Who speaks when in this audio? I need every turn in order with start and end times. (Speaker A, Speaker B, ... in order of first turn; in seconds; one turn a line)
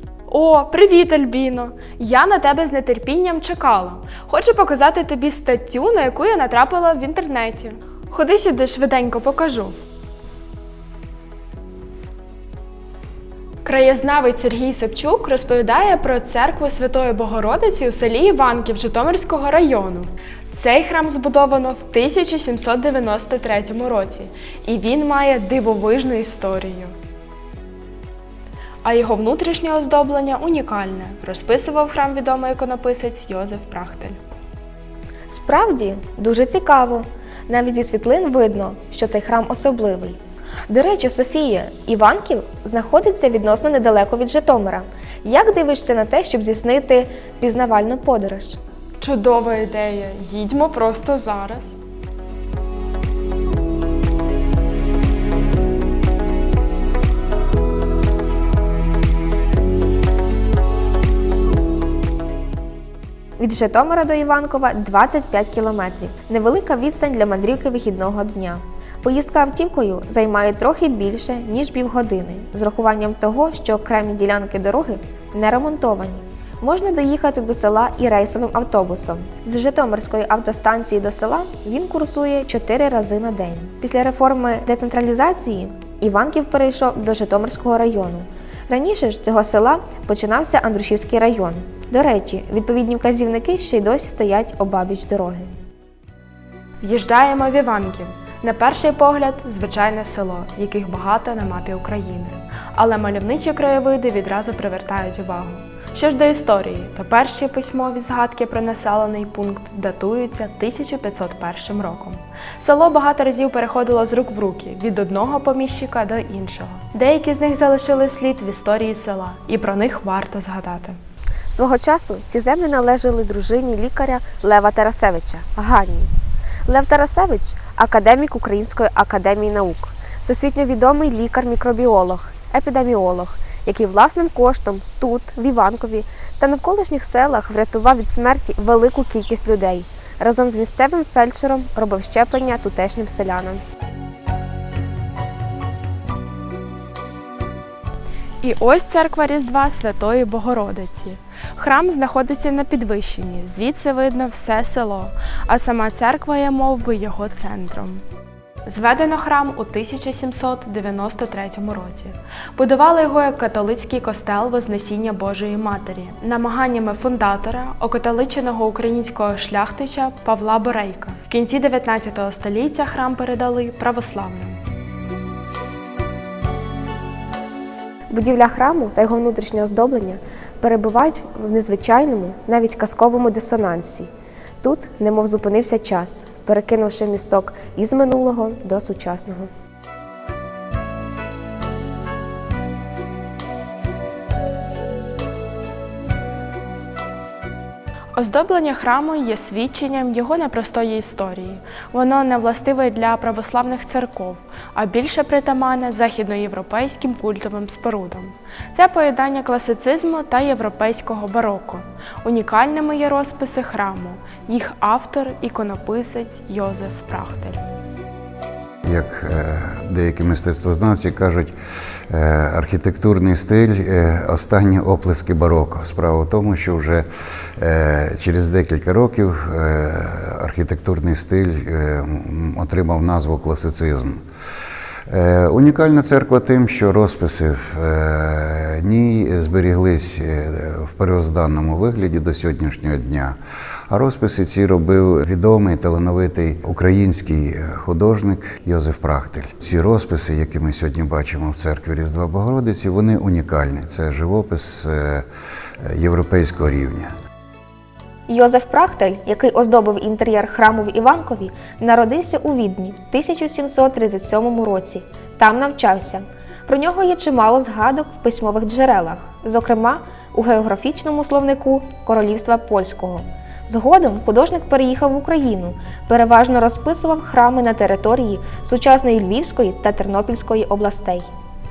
Speaker A: 0.3-9.8
Speaker A: 13.7-26.9
Speaker A: 28.8-34.2
Speaker B: 35.3-48.6
Speaker A: 49.0-51.8
Speaker B: 63.4-95.5
Speaker A: 96.8-121.0
Speaker B: 121.5-126.1
Speaker B: 126.7-143.6
Speaker A: 148.4-158.0
Speaker A: 158.7-174.6
Speaker B: 178.1-184.1
Speaker B: 184.6-189.5
Speaker A: 198.2-217.6
Speaker C: 218.9-221.5
Speaker C: 222.1-227.1
Speaker C: 227.6-234.2
Speaker C: 235.1-243.4
Speaker C: 243.9-255.2
Speaker C: 255.8-257.1
Speaker B: 258.3-281.3